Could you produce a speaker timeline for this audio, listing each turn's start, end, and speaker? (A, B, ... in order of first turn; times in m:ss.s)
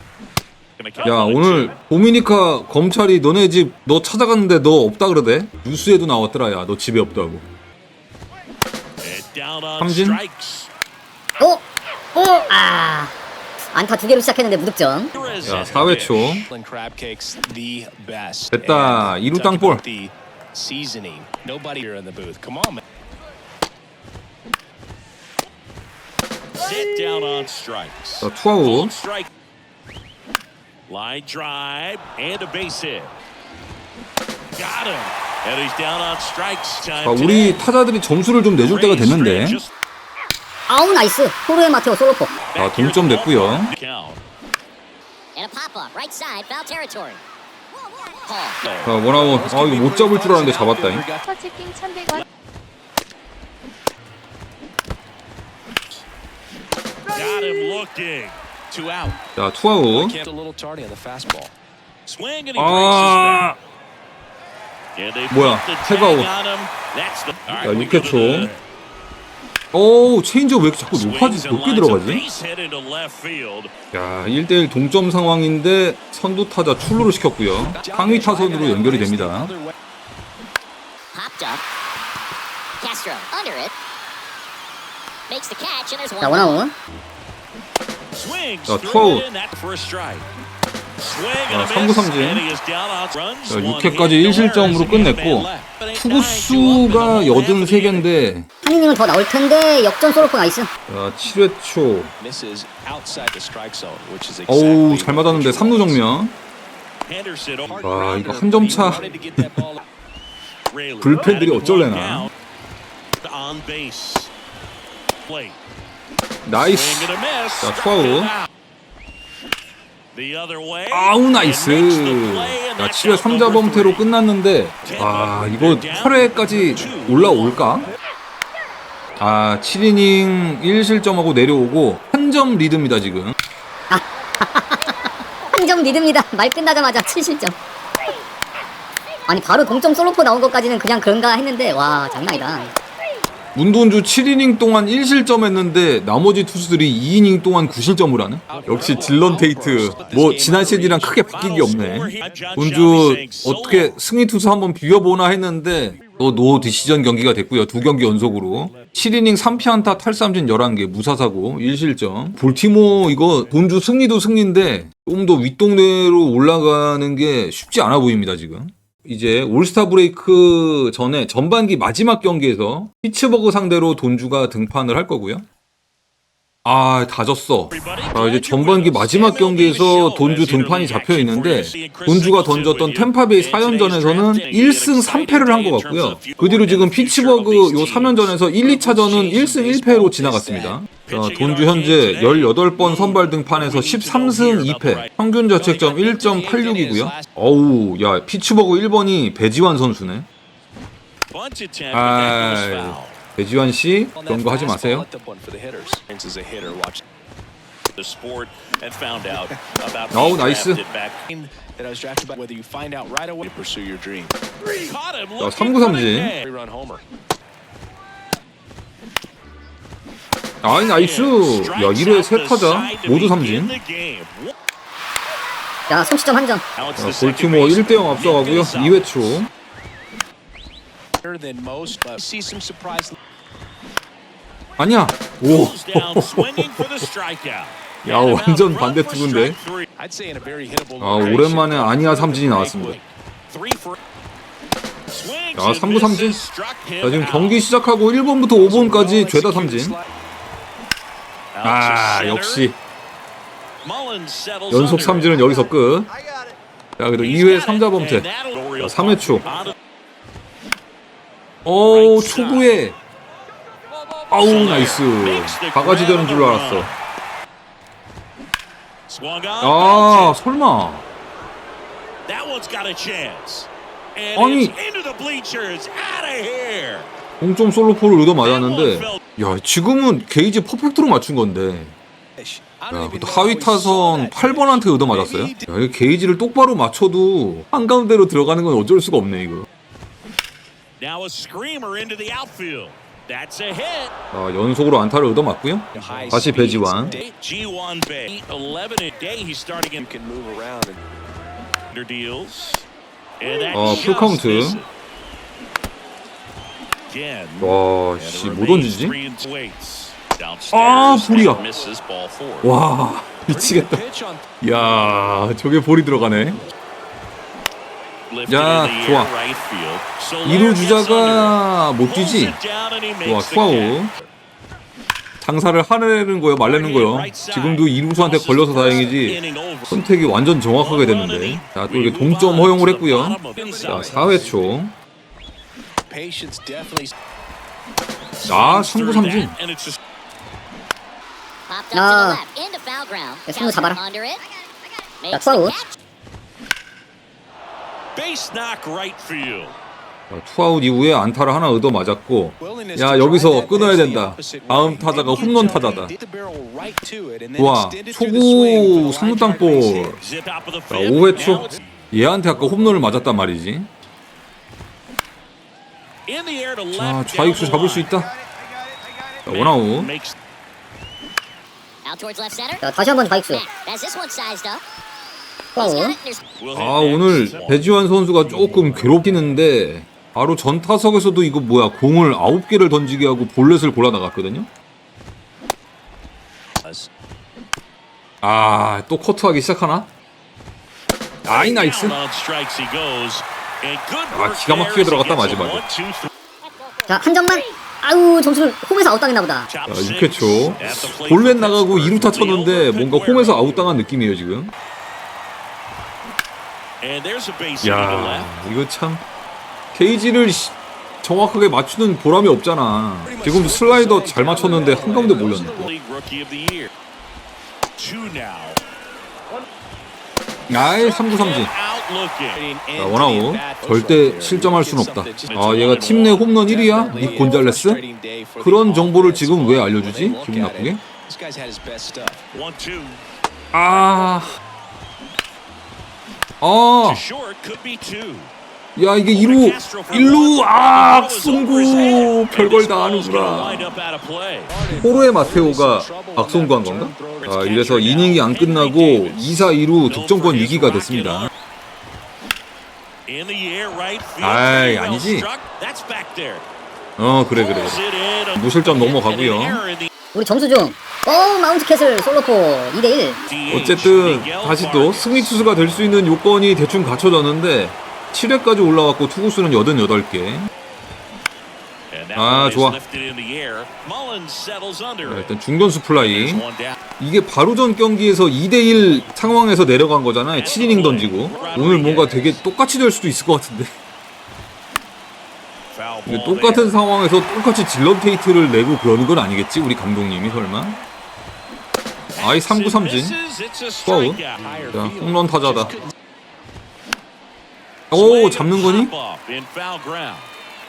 0:00.8-0:01.8 A
0:01.0-0:07.5 B
0:09.0-0:10.7 A
0:09.8-0:10.2 B
0:12.2-0:13.1 C
0:13.7-0:15.1 C
0:15.2-0:16.4 A
0:15.4-0:16.5 B
0:16.5-0:22.8 D
0:18.5-0:19.8 B
0:26.6-0:29.3 A
0:28.2-0:28.9 B
0:30.9-0:33.1 A
0:34.6-0:37.6 A
0:37.0-0:39.6 B
0:38.6-0:39.7 A
0:40.7-0:42.4 C
0:42.5-0:44.2 A
0:42.6-0:43.7 B
0:45.4-0:47.2 E
0:47.8-0:48.6 E
0:48.6-0:48.9 A
0:48.8-0:51.0 B
0:49.1-0:51.6 D
0:51.9-0:52.2 A
0:57.1-0:59.1 A
0:58.9-0:59.2 D
0:59.4-1:00.2 B
0:59.9-1:01.5 D
1:02.1-1:03.5 A
1:02.6-1:03.6 B
1:05.0-1:08.6 A
1:05.3-1:06.3 B
1:07.6-1:08.5 B
1:09.7-1:12.2 B
1:10.9-1:13.7 A
1:13.9-1:19.5 B
1:17.6-1:19.7 D
1:21.1-1:21.6 E
1:22.8-1:23.7 E
1:25.3-1:26.6 E
1:26.2-1:26.7 C
1:28.1-1:30.3 A
1:28.7-1:29.3 B
1:31.0-1:38.1 A
1:31.5-1:32.4 B
1:33.5-1:38.5 B
1:38.6-1:40.7 C
1:40.9-1:42.1 B
1:42.2-1:46.0 D
1:44.5-1:46.4 B
1:47.1-1:47.9 A
1:47.7-1:49.8 D
1:47.8-1:49.6 B
1:48.7-1:49.2 A
1:50.7-1:52.3 A
1:51.0-1:52.3 B
1:53.2-1:54.3 A
1:55.3-1:55.6 A
1:56.5-1:58.3 B
1:56.6-1:58.5 A
2:00.1-2:04.1 A
2:00.9-2:07.9 B
2:04.8-2:07.8 A
2:09.2-2:13.3 B
2:13.9-2:17.6 C
2:19.3-2:22.7 C
2:23.6-2:55.5 B
2:28.5-2:32.3 D
2:30.9-2:34.0 A
2:56.6-3:20.3 B
2:57.7-3:08.4 A
3:08.6-3:10.8 D
3:11.1-3:15.1 A
3:15.6-3:17.3 D
3:21.3-3:23.2 A
3:21.9-3:25.1 B
3:24.2-3:27.0 D
3:28.0-3:31.2 A
3:29.3-3:29.5 D
3:30.1-3:30.8 B
3:31.3-3:34.4 D
3:34.6-3:36.4 A
3:35.4-3:36.3 B
3:36.4-3:37.0 D
3:40.6-3:43.8 B
3:40.9-3:44.5 A
3:45.9-3:46.6 C
3:46.8-3:49.4 A
3:47.0-3:49.5 B
3:51.2-3:53.2 D
3:54.8-3:56.9 B
3:55.4-3:59.9 A
3:58.0-3:59.6 B
4:00.0-4:03.1 D
4:01.0-4:03.0 B
4:03.5-4:04.0 A
4:05.1-4:07.6 A
4:05.6-4:06.4 B
4:07.0-4:10.0 B
4:08.6-4:10.1 D
4:11.5-4:12.7 A
4:11.6-4:12.8 B
4:13.8-4:15.5 A
4:14.7-4:16.1 B
4:17.0-4:18.3 B
4:17.2-4:19.8 A
4:18.8-4:19.4 B
4:21.6-4:23.0 B
4:21.9-4:22.7 A
4:24.3-4:26.9 B
4:24.3-4:26.9 A
4:29.1-4:30.4 A
4:29.6-4:31.0 B
4:32.3-4:37.1 A
4:34.4-4:34.8 B
4:37.4-4:41.9 B
4:38.4-4:39.2 A
4:42.4-4:45.7 D
4:42.9-4:49.7 B
4:51.0-4:54.1 A
4:54.3-4:57.2 B
4:55.9-4:57.3 D
4:56.0-4:56.5 A
4:57.3-5:00.1 A
5:00.0-5:01.0 D
5:01.9-5:02.8 A
5:03.4-5:04.9 A
5:03.7-5:04.8 B
5:07.1-5:12.7 A
5:07.6-5:09.2 B
5:10.7-5:11.6 B
5:11.5-5:11.9 D
5:12.6-5:14.0 B
5:13.5-5:14.5 D
5:14.6-5:16.6 B
5:18.3-5:24.0 A
5:18.5-5:19.3 B
5:20.4-5:22.6 B
5:23.2-5:24.1 B
5:25.4-5:34.9 B
5:26.6-5:30.0 A
5:30.8-5:34.5 A
5:33.6-5:34.8 D
5:36.1-5:37.1 D
5:38.4-5:40.0 A
5:38.5-5:39.6 B
5:41.7-5:44.4 E
5:41.9-5:42.4 C
5:43.5-5:44.0 C
5:45.2-5:46.0 E
5:45.3-5:45.8 C
5:48.2-5:49.8 A
5:50.3-5:56.1 B
5:52.6-6:00.2 D
5:55.1-5:55.8 A
5:57.6-6:00.2 B
6:00.2-6:01.8 A
6:00.9-6:03.9 B
6:06.3-6:08.1 A
6:06.9-6:08.3 B
6:09.5-6:10.1 B
6:09.5-6:10.4 A
6:12.0-6:12.8 E
6:12.8-6:13.6 C
6:13.5-6:14.8 E
6:15.8-6:16.2 C
6:15.8-6:16.4 E
6:16.5-6:17.8 A
6:16.7-6:24.7 B
6:28.4-6:30.1 B
6:31.4-6:32.2 B
6:31.5-6:36.3 A
6:34.3-6:35.8 B
6:37.1-6:39.7 C
6:39.7-6:44.1 A
6:39.9-6:44.7 B
6:47.0-6:48.5 A
6:47.8-6:49.2 B
6:49.9-6:55.9 B
6:53.2-6:55.9 D
6:54.5-6:56.9 A
6:58.0-6:58.8 A
7:00.7-7:01.7 B
7:01.0-7:02.6 A
7:02.6-7:12.4 D
7:03.0-7:08.0 B
7:05.5-7:06.5 A
7:07.2-7:07.5 A
7:08.6-7:11.0 B
7:12.5-7:13.2 A
7:13.7-7:14.6 B
7:16.6-7:17.2 B
7:17.0-7:18.5 A
7:19.0-7:23.9 B
7:19.3-7:24.7 A
7:24.7-7:27.8 D
7:25.0-7:31.5 B
7:27.5-7:31.5 A
7:33.3-7:36.6 A
7:34.4-7:35.5 B
7:37.2-7:38.0 B
7:37.5-7:40.1 A
7:38.6-7:39.8 B
7:40.3-7:43.4 C
7:43.5-7:45.9 A
7:43.7-7:50.7 B
7:52.1-7:55.5 A
7:52.4-7:53.0 B
7:55.2-7:56.6 B
7:56.1-7:57.0 A
7:57.2-8:03.9 B
8:00.5-8:02.7 A
8:05.9-8:07.0 A
8:06.3-8:11.0 B
8:12.4-8:15.1 A
8:12.4-8:13.4 B
8:14.0-8:15.9 B
8:14.6-8:16.1 D
8:18.1-8:19.1 B
8:18.1-8:20.5 A